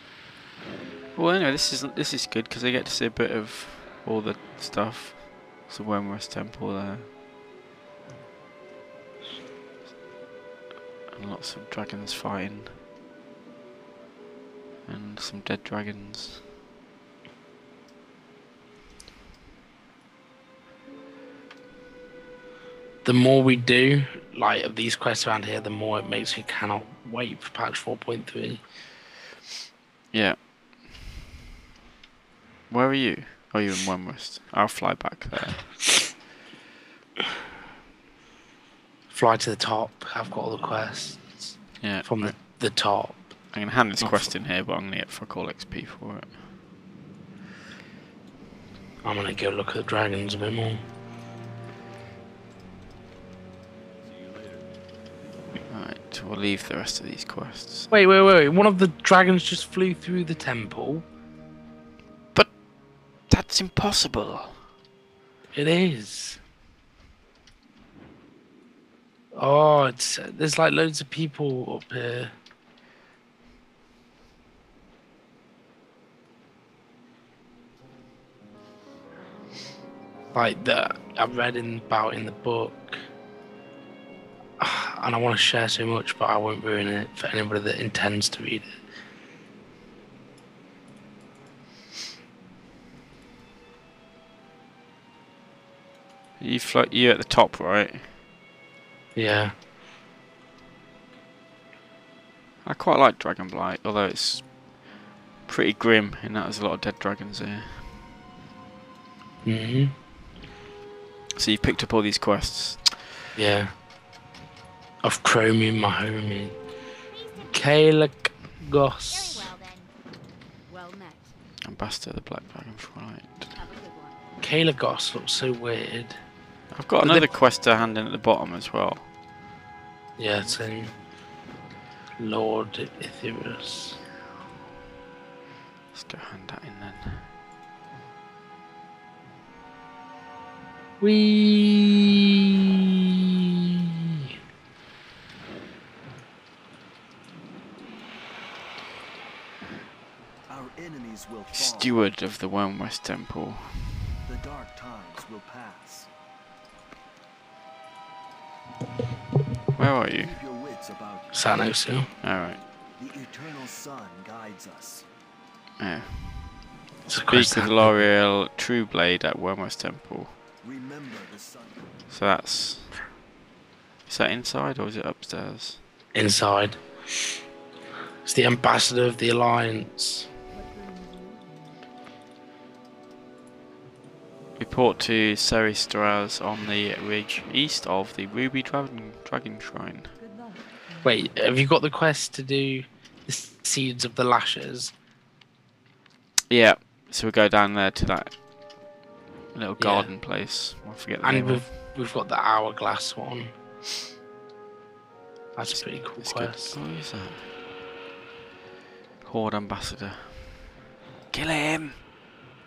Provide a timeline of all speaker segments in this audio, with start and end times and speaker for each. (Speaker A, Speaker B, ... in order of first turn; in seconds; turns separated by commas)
Speaker A: 1.1-7.1, Speaker A: 11.1-12.8, Speaker A: 14.9-16.4, Speaker B: 23.0-28.6, Speaker A: 30.1-30.9, Speaker A: 32.7-35.9, Speaker B: 39.1-43.3, Speaker A: 41.8-42.4, Speaker A: 43.5-46.4, Speaker B: 44.0-44.3, Speaker B: 49.0-50.8, Speaker A: 55.7-57.9, Speaker B: 57.9-61.0, Speaker A: 62.3-64.7, Speaker B: 65.5-66.4, Speaker B: 69.3-72.3, Speaker B: 80.3-83.0, Speaker B: 84.6-88.7, Speaker A: 96.4-98.1, Speaker B: 99.1-99.5, Speaker A: 102.6-104.6, Speaker A: 105.5-108.0, Speaker B: 109.4-109.9, Speaker A: 111.3-113.1, Speaker B: 113.3-113.8, Speaker B: 115.0-116.6, Speaker C: 117.1-117.7, Speaker B: 117.5-119.5, Speaker C: 119.0-119.9, Speaker C: 120.7-121.4, Speaker A: 121.6-123.5, Speaker C: 123.5-124.2, Speaker B: 124.4-126.2, Speaker A: 126.7-129.1, Speaker B: 127.0-127.3, Speaker B: 130.2-130.9, Speaker B: 132.2-134.0, Speaker A: 135.9-137.3, Speaker B: 141.0-142.1, Speaker D: 150.5-152.0, Speaker A: 151.5-154.1, Speaker D: 154.2-156.1, Speaker A: 159.8-160.3, Speaker D: 160.2-161.5, Speaker B: 161.3-162.1, Speaker A: 162.2-162.6, Speaker D: 163.0-165.1, Speaker A: 165.8-166.7, Speaker B: 167.1-167.8, Speaker A: 167.3-170.4, Speaker D: 170.6-171.9, Speaker A: 172.1-173.0, Speaker A: 174.1-175.8, Speaker B: 176.1-176.8, Speaker B: 178.2-180.3, Speaker C: 180.5-181.8, Speaker A: 184.6-190.1, Speaker C: 190.2-191.2, Speaker B: 191.0-194.9, Speaker A: 196.5-198.4, Speaker A: 199.5-201.7, Speaker B: 199.8-200.1, Speaker B: 201.2-203.5, Speaker B: 205.6-206.8, Speaker A: 205.7-207.5, Speaker A: 209.2-210.8, Speaker A: 211.3-212.0